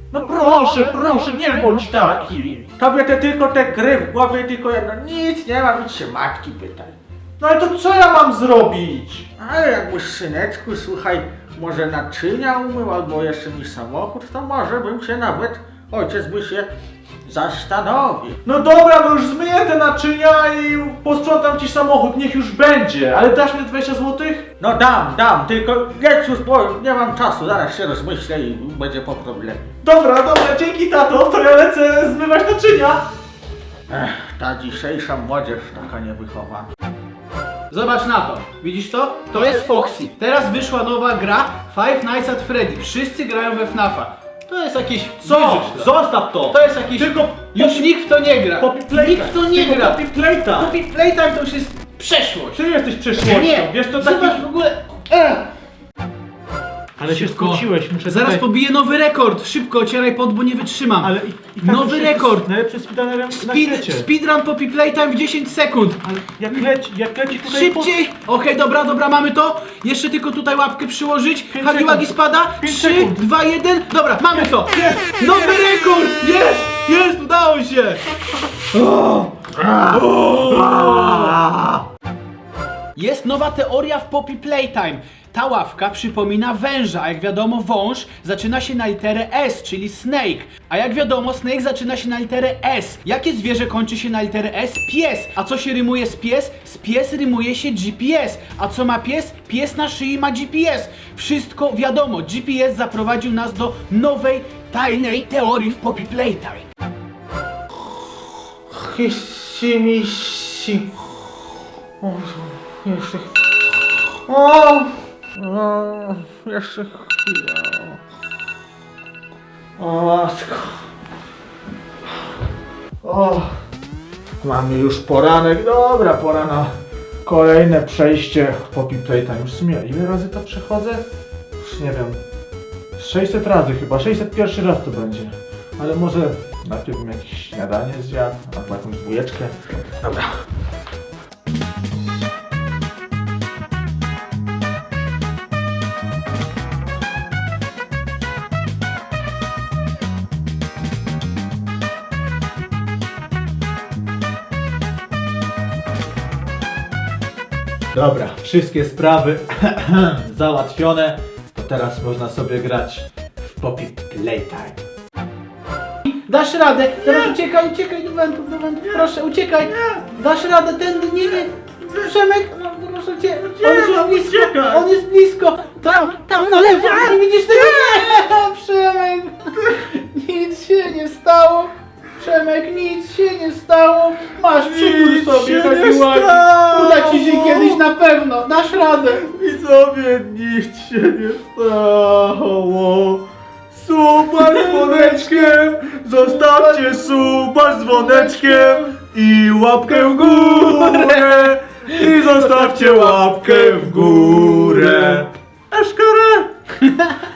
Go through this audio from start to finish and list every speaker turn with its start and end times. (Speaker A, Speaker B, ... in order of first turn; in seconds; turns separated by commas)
Speaker A: 0.1-2.9, Speaker B: 2.7-6.9, Speaker A: 7.4-9.3, Speaker B: 9.4-16.7, Speaker B: 17.2-18.4, Speaker A: 18.4-24.5, Speaker B: 24.6-29.7, Speaker A: 29.8-33.1, Speaker B: 33.9-36.7, Speaker C: 37.7-45.9, Speaker A: 45.2-47.9, Speaker C: 46.4-52.6, Speaker A: 48.6-50.8, Speaker A: 52.5-54.4, Speaker C: 53.2-55.5, Speaker A: 57.0-58.4, Speaker C: 57.0-62.5, Speaker A: 61.0-64.1, Speaker C: 63.3-66.7, Speaker A: 66.1-68.0, Speaker C: 67.3-78.0, Speaker A: 71.5-73.2, Speaker A: 74.3-75.0, Speaker B: 78.9-80.1, Speaker C: 80.2-81.3, Speaker A: 80.5-81.3, Speaker C: 83.0-106.6, Speaker B: 108.7-110.9, Speaker B: 112.0-113.3, Speaker B: 114.3-118.0, Speaker A: 119.8-120.8, Speaker A: 123.0-123.5, Speaker A: 124.4-126.7, Speaker A: 127.2-131.0, Speaker A: 131.6-132.2, Speaker A: 133.0-139.5, Speaker A: 157.9-164.8, Speaker C: 166.1-189.2, Speaker A: 167.0-167.4, Speaker A: 168.8-170.1, Speaker A: 173.3-174.9, Speaker A: 176.8-178.2, Speaker A: 184.5-187.8, Speaker A: 189.1-206.5, Speaker C: 194.4-195.6, Speaker C: 196.1-198.9, Speaker C: 199.9-205.2, Speaker C: 206.8-207.1